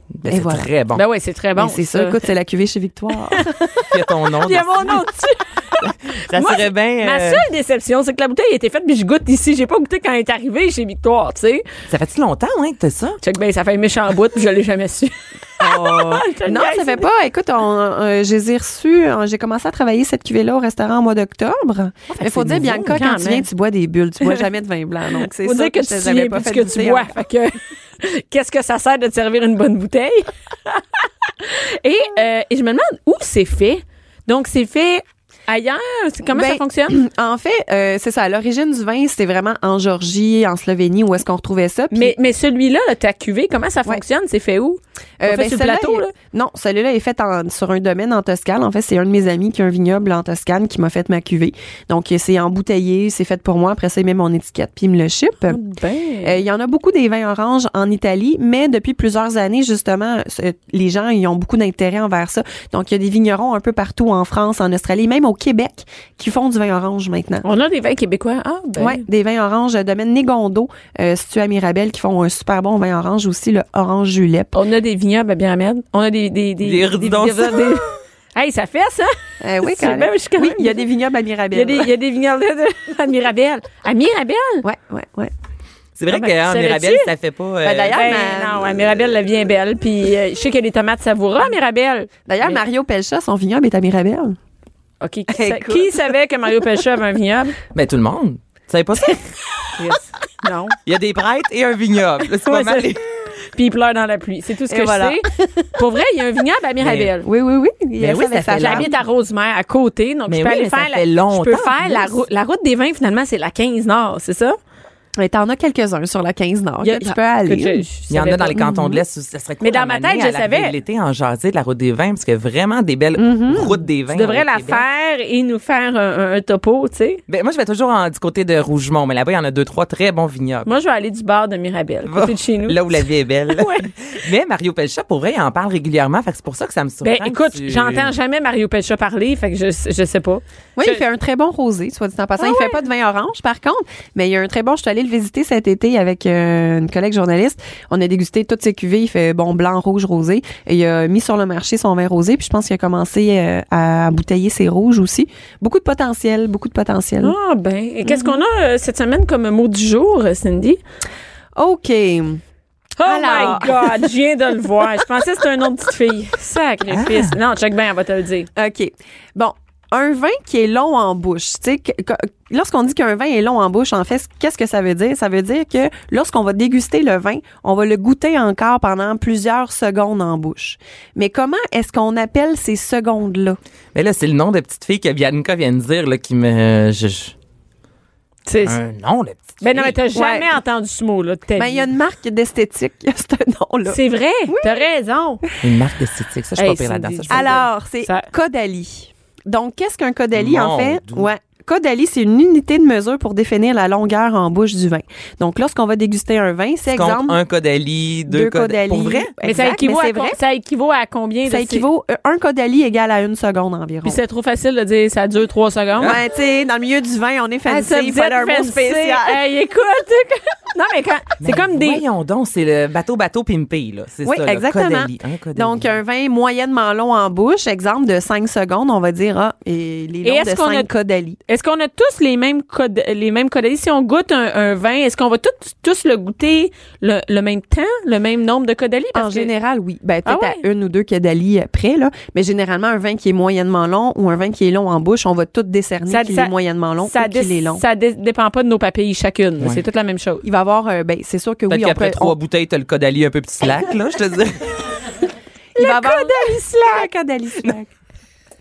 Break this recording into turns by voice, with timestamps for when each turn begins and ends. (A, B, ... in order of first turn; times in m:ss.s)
0:00.2-0:01.0 A
0:00.3-0:00.7 B
0:01.0-0:02.2 C
0:01.6-0:03.6 B
0:03.3-0:03.9 C
0:03.9-0:05.1 A
0:04.4-0:11.7 C
0:05.8-0:07.4 A
0:11.9-0:13.2 A
0:13.2-0:17.1 C
0:15.6-0:27.2 B
0:22.1-0:23.0 A
0:23.0-0:23.4 C
0:25.2-0:37.0 C
0:36.3-0:42.2 B
0:41.9-0:46.1 C
0:45.2-0:55.6 B
0:55.5-0:56.4 C
0:56.2-1:07.5 B
1:07.4-1:09.0 C
1:08.8-1:14.6 B
1:14.5-1:20.8 C
1:16.6-1:17.8 A
1:19.4-1:21.9 B
1:21.5-1:24.6 C
1:24.6-1:25.3 B
1:26.0-1:28.0 A
1:26.1-1:27.1 C
1:27.6-1:28.8 B
1:27.9-1:32.6 C
1:32.3-1:34.4 B
1:35.0-1:37.6 C
1:35.3-1:36.1 B
1:37.7-1:39.3 A
1:39.8-1:40.8 C
1:40.8-1:43.0 A
1:42.4-1:42.9 C
1:43.5-1:47.3 C
1:44.7-1:45.7 B
1:46.8-1:47.1 A
1:47.2-1:48.9 B
1:48.0-1:48.9 A
1:48.6-1:54.6 C
1:50.3-1:52.2 A
1:55.2-1:57.9 B
1:56.8-1:58.7 C
1:58.1-2:04.8 A
1:58.6-1:59.0 B
1:59.6-2:00.8 C
2:03.2-2:03.8 B
2:04.1-2:07.2 C
2:07.3-2:10.7 A
2:10.7-2:13.9 C
2:12.1-2:18.1 A
2:17.0-2:21.0 C
2:20.8-2:37.4 B
2:22.4-2:22.8 C
2:37.2-2:40.8 C
2:38.1-2:38.4 B
2:41.6-2:42.4 B
2:43.0-2:48.5 C
2:43.0-2:44.1 B
2:46.9-2:47.4 A
2:48.6-3:03.6 B
3:04.0-3:07.3 A
3:08.5-3:08.8 C
3:08.6-3:10.0 A
3:09.6-3:11.9 C
3:10.1-3:10.5 B
3:11.6-3:14.8 B
3:13.9-3:15.4 C
3:15.6-3:17.6 A
3:16.6-3:18.3 C
3:17.3-3:27.4 B
3:20.3-3:21.3 A
3:26.9-3:29.3 A
3:28.3-3:30.4 B
3:29.4-3:31.8 C
3:31.4-3:34.2 B
3:34.0-3:36.2 C
3:36.0-3:39.4 B
3:37.7-3:42.0 C
3:41.4-3:45.9 A
3:44.2-3:51.4 B
3:50.2-3:50.9 C
3:51.5-3:59.5 C
3:59.2-4:07.8 B
4:00.3-4:00.6 C
4:06.1-4:06.5 C
4:07.0-4:10.4 C
4:10.4-4:12.4 B
4:11.7-4:15.0 A
4:15.8-4:17.9 B
4:15.8-4:16.7 C